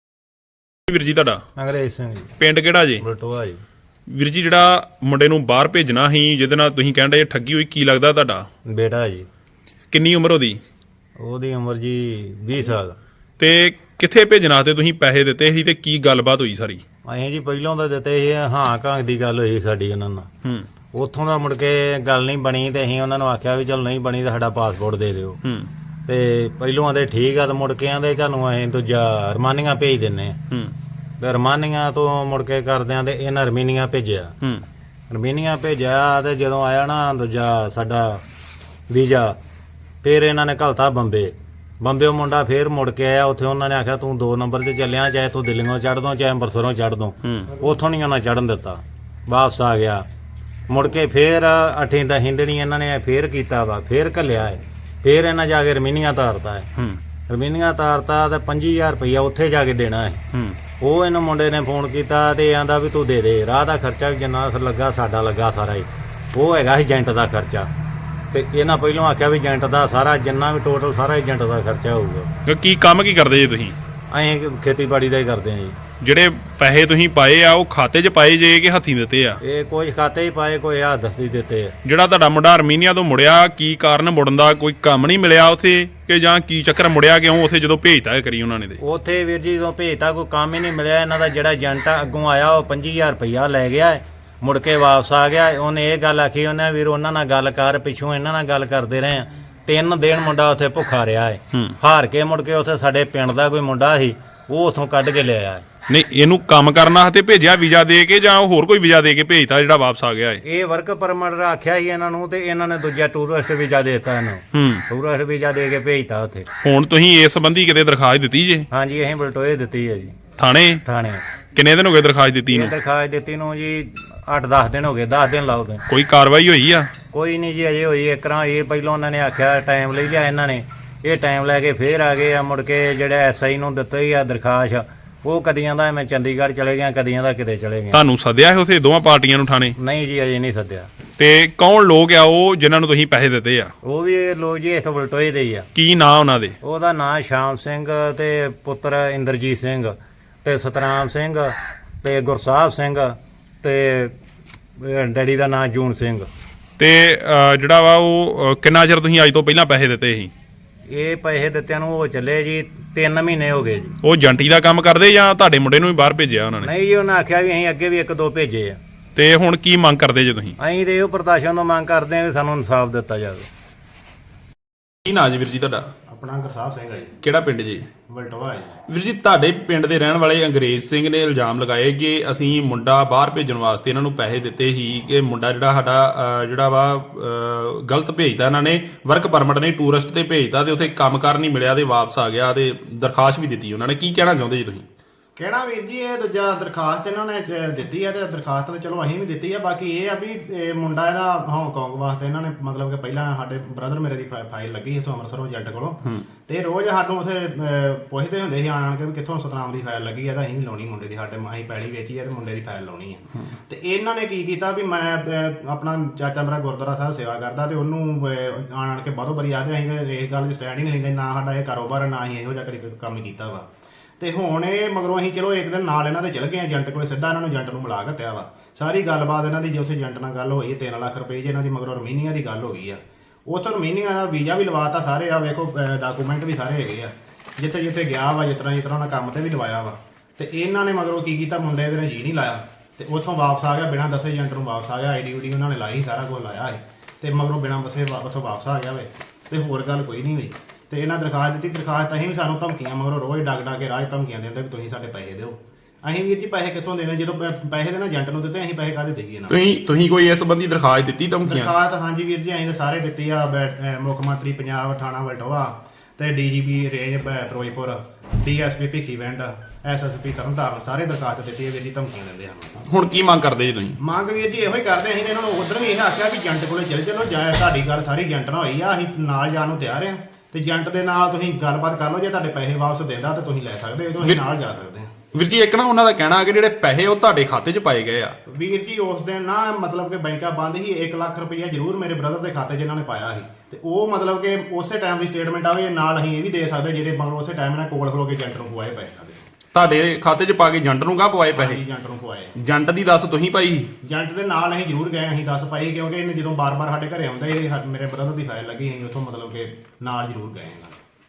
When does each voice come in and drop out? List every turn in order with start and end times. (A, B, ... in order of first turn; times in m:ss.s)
0:00.9-0:01.4 A
0:01.6-0:02.3 B
0:02.4-0:03.0 A
0:03.0-0:03.6 B
0:04.1-0:08.5 A
0:08.7-0:09.3 B
0:09.9-0:10.6 A
0:11.2-0:13.0 B
0:13.4-0:16.8 A
0:17.0-0:20.3 B
0:20.9-0:25.4 B
0:25.4-0:25.7 A
0:26.1-0:30.4 B
0:31.2-0:34.3 B
0:35.1-0:38.2 B
0:38.9-0:39.4 B
0:40.0-0:50.1 B
0:47.2-0:47.6 A
0:50.7-0:56.7 B
0:56.8-0:57.0 A
0:57.3-1:00.2 B
1:00.3-1:00.6 A
1:00.8-1:07.7 B
1:08.3-1:12.3 B
1:12.4-1:13.8 A
1:14.1-1:15.8 B
1:16.0-1:19.4 A
1:19.4-1:21.8 B
1:21.8-1:28.8 A
1:28.8-1:45.6 B
1:45.9-1:50.4 A
1:50.4-1:56.5 B
1:54.5-1:54.8 A
1:56.6-1:58.7 A
1:58.7-2:00.2 B
2:00.4-2:00.8 A
2:00.8-2:01.2 B
2:01.6-2:02.7 A
2:02.5-2:05.8 B
2:05.9-2:06.9 A
2:07.1-2:18.0 B
2:17.9-2:19.8 A
2:19.8-2:20.9 B
2:21.2-2:23.7 A
2:23.8-2:25.7 B
2:25.8-2:26.6 A
2:26.6-2:34.2 B
2:34.8-2:36.3 B
2:36.8-2:40.3 A
2:40.9-2:44.0 B
2:44.0-2:46.7 A
2:46.6-2:48.8 B
2:49.2-2:50.6 A
2:50.6-2:53.5 B
2:55.1-2:55.9 A
2:56.1-2:57.2 C
2:57.2-2:57.9 A
2:58.1-2:58.8 C
2:58.9-3:14.9 A
3:15.4-3:43.7 C
3:44.2-4:19.6 C
4:19.5-4:21.7 A
4:21.5-4:32.8 C
4:32.9-4:34.0 A
4:34.0-4:45.1 C
4:45.3-4:48.4 A
4:48.5-4:59.5 C
4:59.7-5:01.8 A
5:01.5-5:02.5 C
5:02.6-5:03.9 A
5:04.0-5:11.0 C